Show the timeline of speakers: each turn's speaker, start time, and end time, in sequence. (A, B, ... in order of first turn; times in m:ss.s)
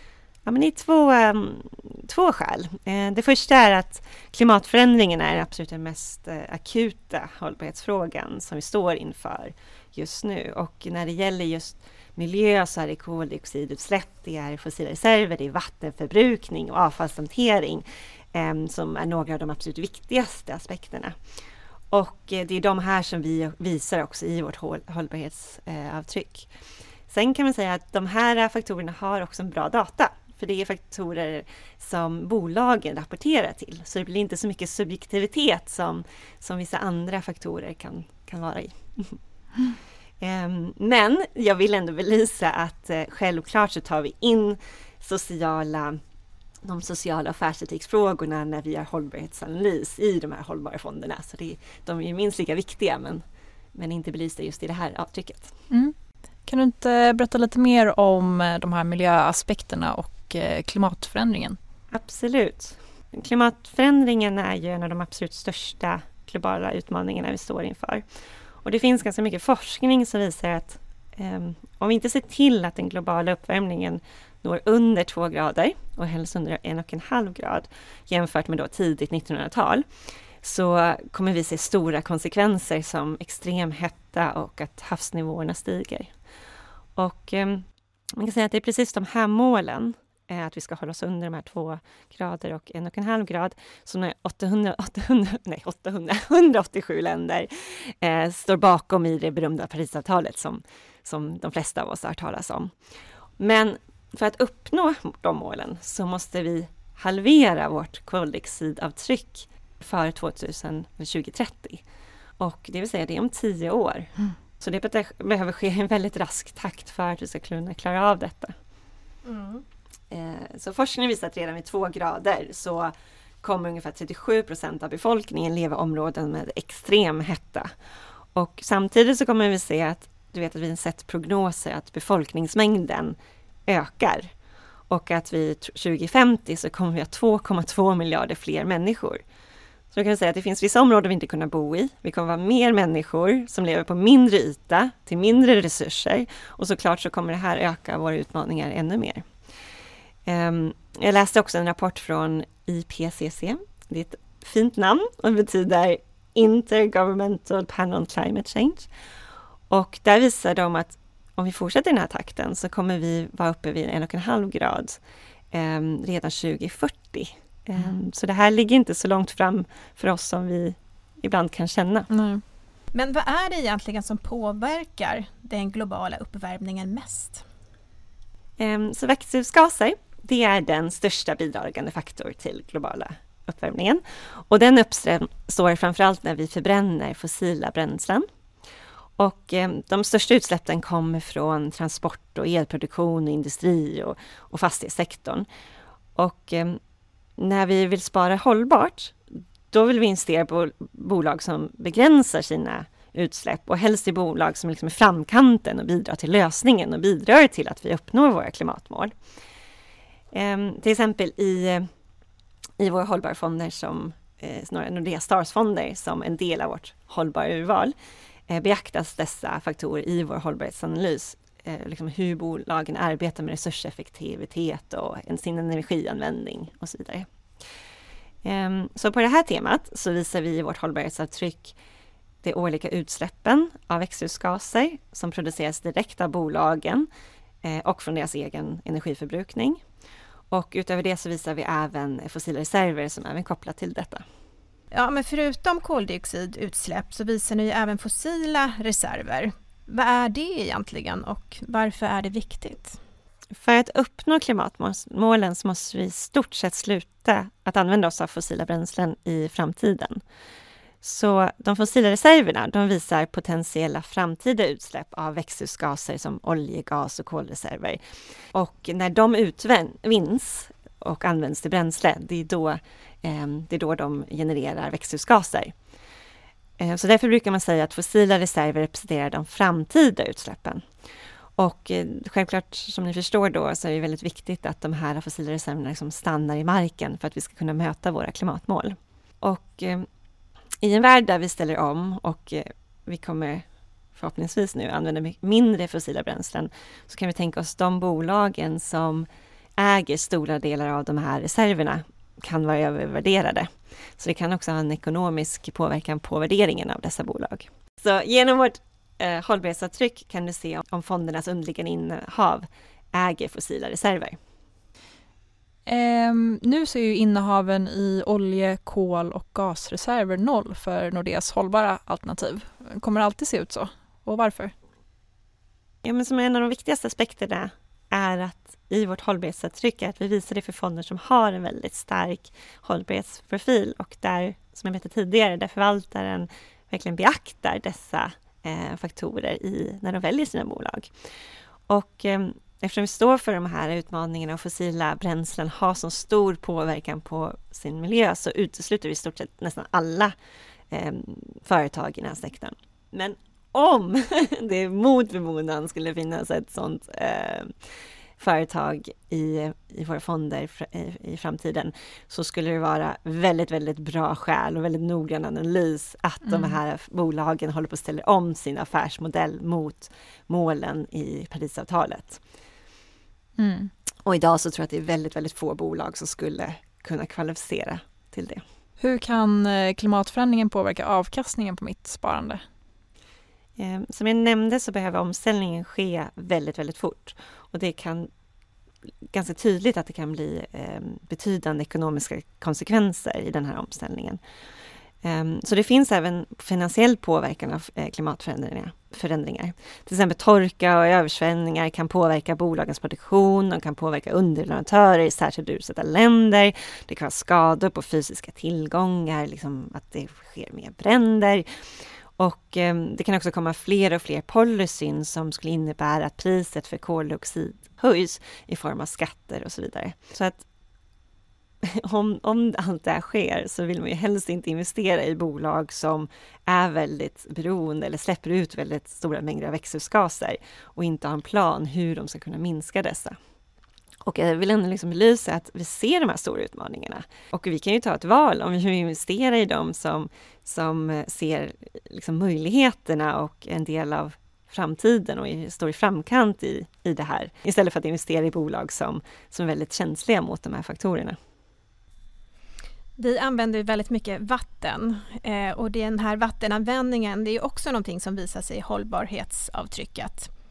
0:00.4-0:21.2 A
0:21.9-0:26.5 A
0:27.1-0:39.2 A
0:40.2-0:46.0 A
0:46.6-0:53.2 A
0:53.8-0:55.5 A
0:56.5-1:01.6 B
1:01.9-1:08.0 A
1:08.6-1:19.8 A
1:20.4-1:26.1 A
1:27.0-1:27.6 A
1:28.2-1:42.7 A
1:43.4-1:51.8 A
1:52.4-1:58.5 A
1:59.2-1:59.6 C
2:00.1-2:02.9 A
2:03.4-2:07.7 A
2:08.3-2:13.2 A
2:13.7-2:14.3 A
2:14.9-2:19.2 A
2:19.9-2:29.2 A
2:30.3-2:38.9 A
2:39.7-2:45.0 A
2:45.5-2:52.1 A
2:52.1-2:52.4 B
2:52.9-2:57.4 C
2:58.6-3:08.3 A
3:09.2-3:15.5 A
3:16.2-3:16.8 A
3:17.4-3:19.2 A
3:19.7-3:29.1 A
3:30.3-3:31.9 A
3:32.8-3:37.9 A
3:38.5-3:47.3 A
3:48.4-3:51.8 A
3:52.4-3:57.1 A
3:57.6-3:59.8 A
4:00.5-4:04.2 A
4:04.9-4:13.0 C
4:13.6-4:20.2 A
4:21.0-4:28.0 A
4:28.5-4:35.7 A
4:36.8-4:40.8 A
4:41.6-4:50.1 A
4:50.8-4:53.6 A
4:54.2-5:14.4 A
5:15.9-5:24.7 B
5:26.0-5:41.1 A
5:41.9-5:50.4 A
5:50.9-5:57.7 A
5:58.4-6:12.4 A
6:06.5-6:06.8 B
6:13.6-6:13.9 B
6:14.2-6:18.6 A
6:19.0-6:22.6 B
6:23.8-6:28.3 A
6:29.3-6:34.4 A
6:35.2-6:51.7 A
6:52.4-7:00.6 A
7:01.8-7:13.4 A
7:14.2-7:31.4 A
7:33.2-7:40.5 C